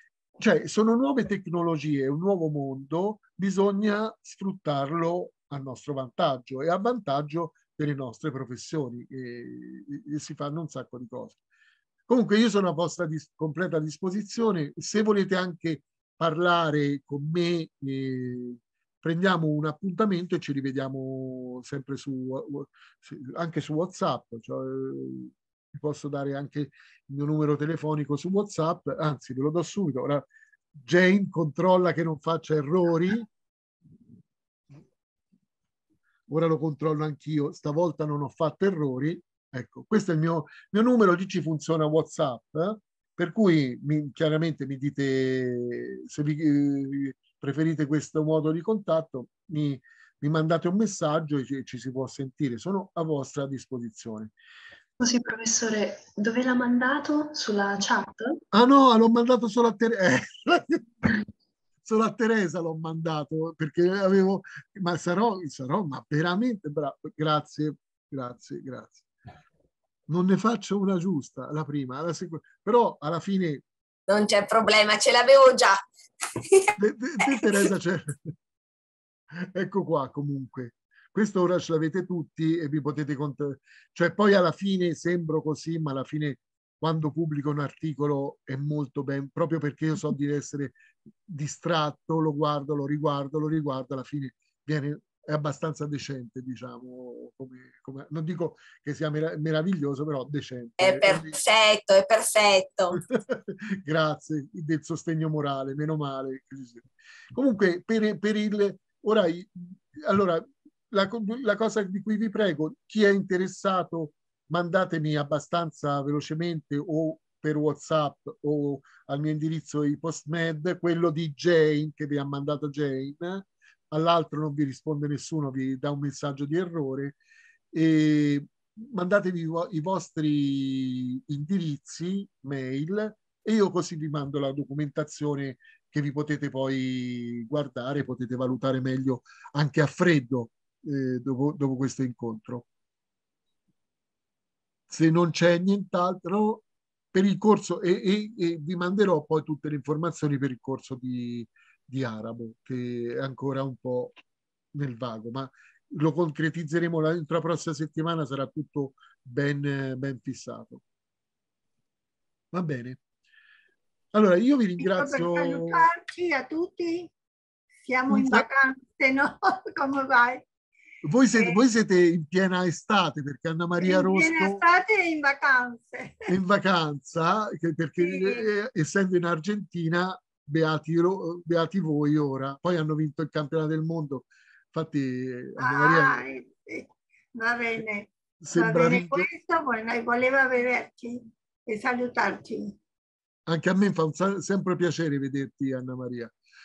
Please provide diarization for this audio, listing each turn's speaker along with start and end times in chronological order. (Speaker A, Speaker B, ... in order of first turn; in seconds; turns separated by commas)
Speaker A: 0.4-11.4, Speaker A: 12.1-30.3, Speaker A: 30.8-33.3, Speaker A: 36.3-54.3, Speaker B: 55.0-58.4, Speaker A: 58.5-61.2, Speaker A: 61.9-69.1, Speaker A: 70.1-73.6, Speaker C: 74.1-75.8, Speaker A: 76.8-78.3, Speaker C: 77.2-77.6, Speaker A: 79.4-101.3, Speaker C: 100.8-103.0, Speaker A: 103.0-127.2, Speaker A: 127.7-142.7, Speaker A: 144.9-154.1, Speaker A: 154.7-160.8, Speaker A: 162.5-163.0, Speaker A: 164.1-165.9, Speaker D: 164.8-167.1, Speaker D: 167.9-170.4, Speaker A: 168.1-168.5, Speaker A: 171.0-174.6, Speaker D: 171.3-171.6, Speaker D: 173.8-176.2, Speaker A: 176.3-186.2, Speaker D: 178.0-178.5, Speaker D: 185.6-192.8, Speaker A: 188.4-189.3, Speaker A: 193.5-196.3